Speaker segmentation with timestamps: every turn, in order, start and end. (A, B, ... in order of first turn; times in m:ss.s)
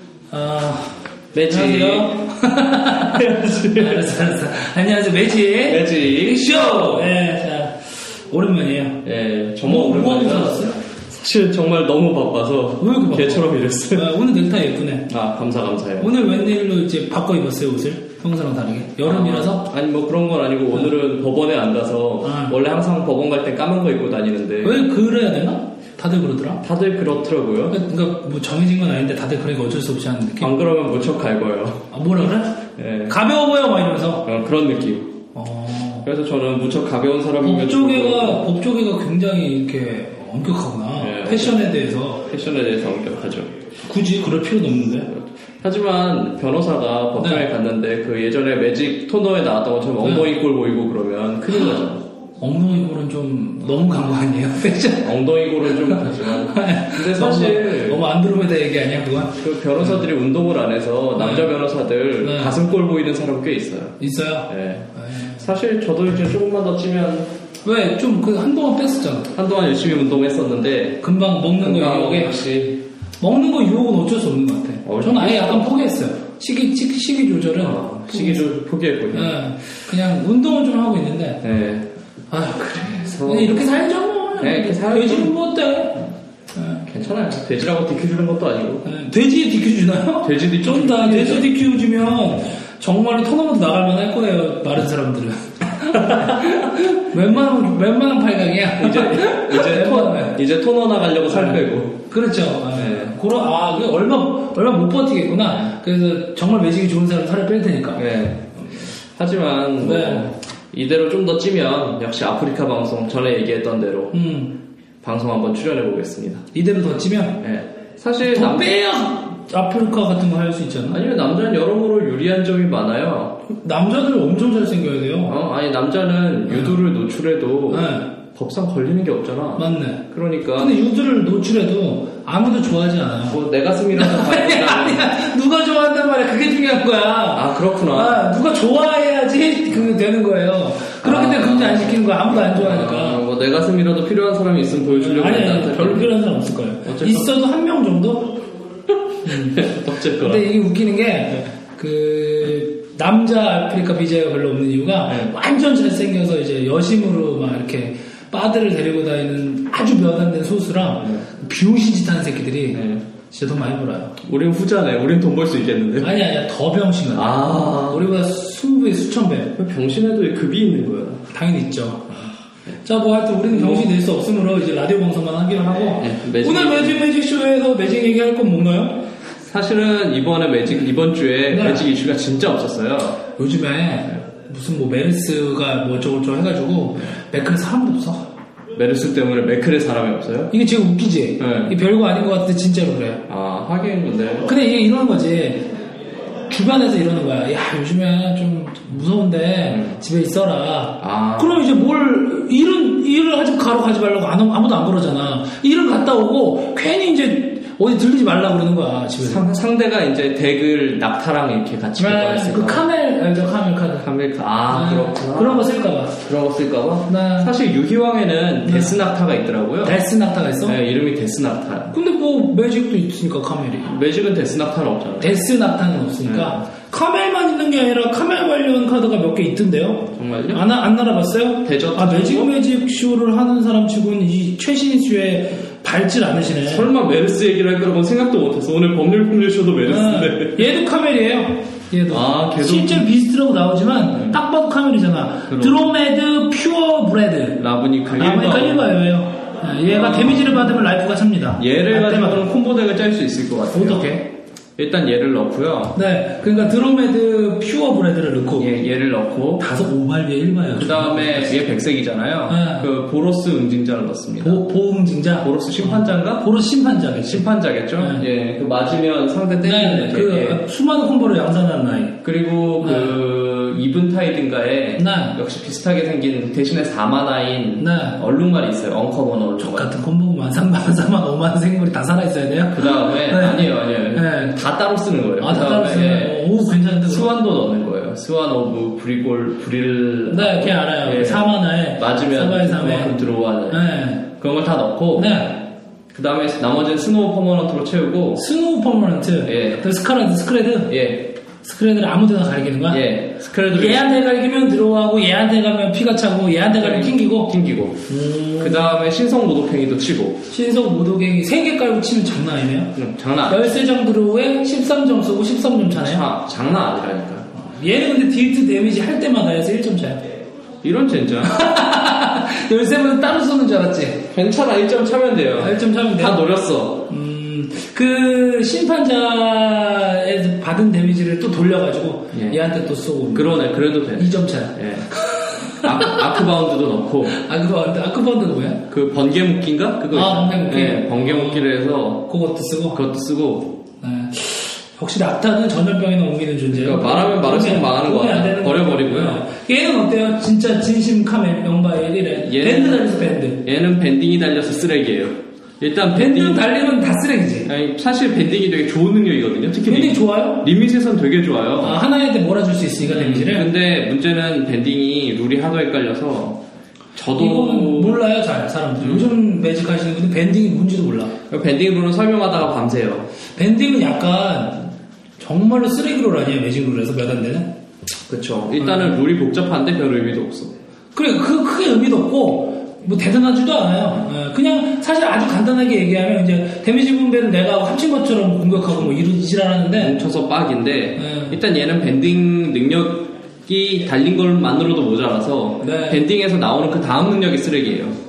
0:00.3-0:09.0 A
0:01.3-0:02.2 B
0:03.0-0:04.1 B
0:05.6-0:07.1 B
0:09.0-0:14.1 B
0:09.6-0:10.8 A
0:12.8-0:15.1 A
0:15.1-0:16.1 B
0:16.0-0:19.7 A
0:19.0-0:24.8 B
0:22.2-0:22.6 A
0:24.6-0:26.6 A
0:26.6-0:27.8 B
0:27.7-0:30.5 A
0:30.4-0:31.9 B
0:31.9-0:34.3 A
0:32.8-0:33.2 B
0:34.2-0:35.2 B
0:35.3-0:36.1 A
0:36.0-0:38.4 B
0:37.4-0:42.3 A
0:41.0-0:41.7 B
0:42.2-0:43.6 B
0:43.8-0:45.1 A
0:45.1-0:52.0 B
0:47.2-0:47.5 A
0:50.0-0:50.3 A
0:52.4-0:55.2 A
0:55.0-0:58.0 B
0:55.7-0:59.4 A
0:59.4-1:04.0 B
1:01.2-1:01.5 A
1:02.2-1:02.6 A
1:04.0-1:05.4 A
1:04.5-1:07.3 B
1:07.6-1:09.4 A
1:09.3-1:11.0 B
1:11.0-1:12.6 A
1:11.6-1:12.8 B
1:13.2-1:21.4 A
1:14.8-1:15.7 B
1:17.6-1:19.4 B
1:21.4-1:21.9 B
1:22.3-1:26.9 A
1:22.6-1:23.7 B
1:24.4-1:25.4 B
1:26.9-1:28.9 B
1:28.8-1:40.4 A
1:30.2-1:31.5 B
1:35.9-1:36.5 B
1:38.8-1:42.1 B
1:41.3-1:48.0 A
1:42.7-1:43.2 B
1:45.5-1:45.7 B
1:48.0-1:54.1 B
1:49.8-1:50.3 A
1:54.1-1:54.6 A
1:55.0-1:56.5 B
1:56.5-1:57.4 A
1:57.4-1:58.8 B
1:58.2-2:01.0 A
2:00.9-2:03.4 B
2:03.5-2:05.4 A
2:05.3-2:10.7 B
2:06.5-2:06.8 A
2:07.7-2:08.1 A
2:09.6-2:13.4 A
2:13.3-2:15.1 B
2:13.9-2:23.2 A
2:17.3-2:18.3 B
2:21.0-2:26.2 B
2:25.0-2:28.4 A
2:26.8-2:27.3 B
2:28.9-2:30.5 B
2:29.2-2:44.2 A
2:35.1-2:35.3 B
2:41.0-2:41.3 B
2:42.7-2:43.1 B
2:44.2-2:46.2 B
2:46.0-2:49.6 A
2:47.1-2:48.1 B
2:49.6-2:51.3 B
2:51.3-2:52.3 A
2:52.8-2:59.1 A
2:53.5-2:53.9 B
2:56.0-2:57.0 B
2:59.4-3:03.2 B
3:01.5-3:01.9 A
3:03.3-3:08.3 A
3:08.7-3:10.5 B
3:10.5-3:13.2 A
3:11.4-3:11.8 B
3:13.3-3:14.6 B
3:14.4-3:15.7 A
3:16.5-3:29.4 A
3:19.7-3:20.0 B
3:21.0-3:21.7 B
3:29.2-3:32.9 B
3:32.0-3:34.1 A
3:34.0-3:40.0 B
3:34.7-3:36.2 A
3:37.1-3:37.5 A
3:38.7-3:39.0 A
3:39.8-3:40.8 A
3:40.6-3:41.9 B
3:41.9-3:43.9 A
3:43.8-3:45.4 B
3:45.2-3:56.9 A
3:46.2-3:46.6 B
3:50.2-3:50.6 B
3:51.6-3:52.5 B
3:56.6-4:00.7 B
3:59.9-4:07.6 A
4:02.1-4:03.1 B
4:04.1-4:04.4 B
4:05.5-4:05.9 B
4:07.6-4:08.9 B
4:08.2-4:12.4 A
4:09.8-4:10.6 B
4:11.6-4:14.2 B
4:13.7-4:14.3 A
4:14.8-4:16.0 B
4:15.9-4:18.7 A
4:18.6-4:19.8 B
4:19.6-4:21.6 A
4:20.7-4:24.6 B
4:22.5-4:22.9 A
4:24.4-4:27.5 A
4:25.4-4:26.5 B
4:27.3-4:30.6 B
4:28.0-4:28.2 A
4:29.6-4:32.2 A
4:32.2-4:39.9 B
4:32.8-4:33.2 A
4:35.0-4:35.4 A
4:37.8-4:38.2 A
4:39.6-4:44.6 A
4:42.7-4:46.5 B
4:45.4-4:47.3 A
4:47.0-4:55.4 B
4:50.3-4:54.3 A
4:55.2-4:55.7 A
4:56.1-4:58.4 B
4:58.4-5:01.0 A
4:59.4-4:59.9 B
5:00.9-5:01.4 B
5:01.6-5:03.1 A
5:02.9-5:04.0 B
5:03.7-5:07.5 A
5:06.7-5:08.1 B
5:08.1-5:09.0 A
5:08.6-5:10.4 B
5:10.5-5:16.3 A
5:13.0-5:13.8 B
5:16.0-5:17.5 B
5:17.5-5:20.2 A
5:20.8-5:21.7 B
5:21.4-5:24.3 A
5:24.3-5:27.1 B
5:25.6-5:26.4 A
5:27.1-5:36.2 A
5:32.3-5:32.6 B
5:33.3-5:35.1 B
5:35.8-5:37.4 B
5:37.3-5:38.9 A
5:38.9-5:42.3 B
5:40.1-5:41.7 A
5:42.3-5:43.0 A
5:42.9-5:43.8 B
5:44.0-5:53.6 A
5:46.7-5:49.5 B
5:52.4-5:56.7 B
5:56.1-5:57.7 A
5:57.6-6:02.0 B
5:59.9-6:00.7 A
6:01.8-6:03.7 A
6:03.0-6:06.6 B
6:07.2-6:08.2 B
6:07.3-6:11.4 A
6:09.0-6:09.4 B
6:11.5-6:13.3 B
6:13.6-6:17.7 A
6:18.3-6:20.8 B
6:18.8-6:19.2 A
6:21.2-6:30.2 A
6:30.0-6:38.2 B
6:31.2-6:31.6 A
6:35.8-6:36.2 A